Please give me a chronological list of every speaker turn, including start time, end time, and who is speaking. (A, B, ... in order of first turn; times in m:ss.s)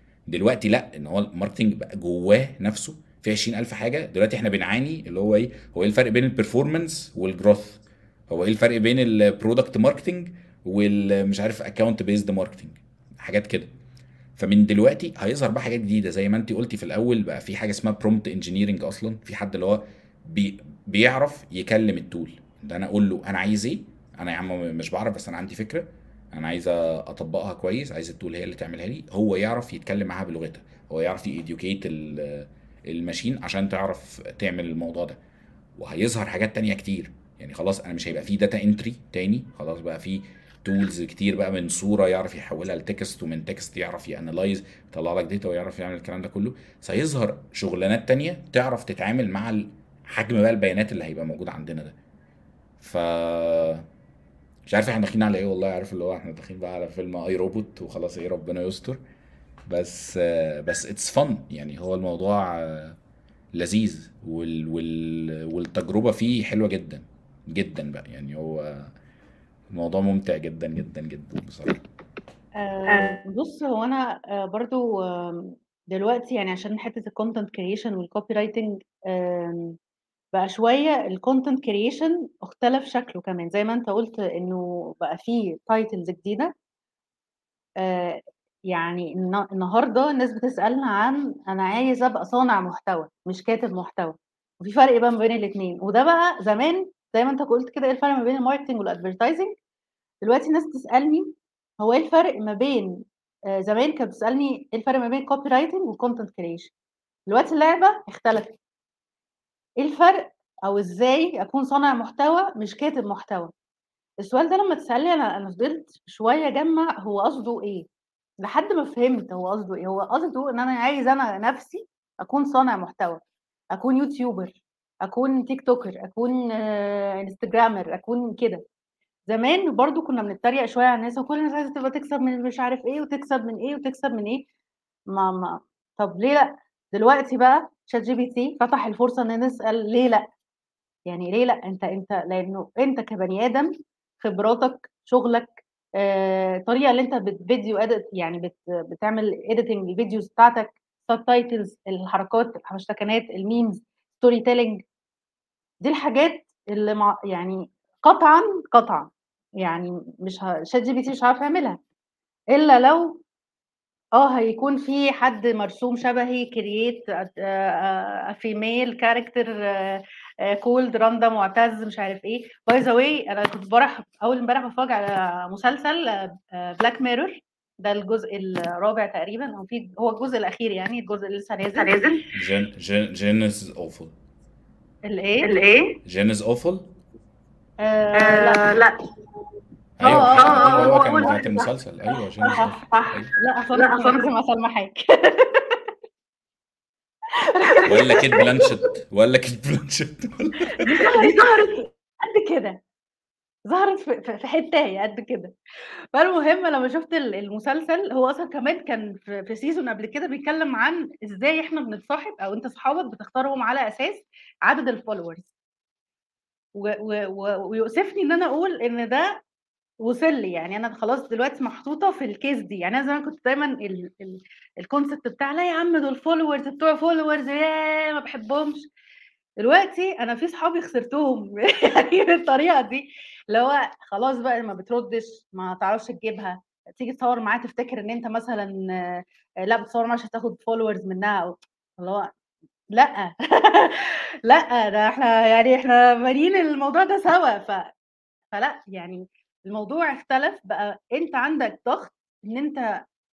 0:00.3-0:13.7 A
0:14.4-0:35.2 A
0:35.8-0:51.9 A
0:52.8-0:53.8 A
0:54.6-0:59.0 A
0:59.7-1:03.0 A
1:03.5-1:08.9 A
1:09.7-1:11.8 A
1:12.6-1:19.8 B
1:12.9-1:13.2 C
1:20.3-1:26.5 B
1:27.8-1:39.6 B
1:40.2-1:46.7 B
1:47.3-1:48.6 B
1:49.8-1:53.5 B
1:54.2-1:57.9 B
1:58.4-2:03.2 B
2:03.7-2:08.6 B
2:09.3-2:14.5 B
2:15.1-2:20.3 B
2:21.0-2:34.8 B
2:35.8-2:41.8 B
2:42.5-2:43.2 B
2:44.1-3:02.1 B
3:01.7-3:02.2 C
3:02.3-3:04.1 A
3:05.1-3:05.5 B
3:05.4-3:06.0 C
3:06.0-3:06.9 A
3:07.8-3:08.8 B
3:08.1-3:09.0 C
3:10.0-3:13.3 A
3:10.0-3:11.4 B
3:10.0-3:11.7 C
3:12.4-3:14.2 C
3:12.4-3:12.8 B
3:13.4-3:15.8 B
3:17.6-3:18.5 B
3:17.7-3:18.7 C
3:17.9-3:20.8 A
3:20.8-3:22.8 B
3:20.9-3:21.8 C
3:23.6-3:25.5 B
3:26.1-3:35.5 B
3:36.7-3:39.4 B
3:40.0-3:48.9 B
3:49.6-4:02.3 B
4:02.9-4:07.9 B
4:08.5-4:13.0 B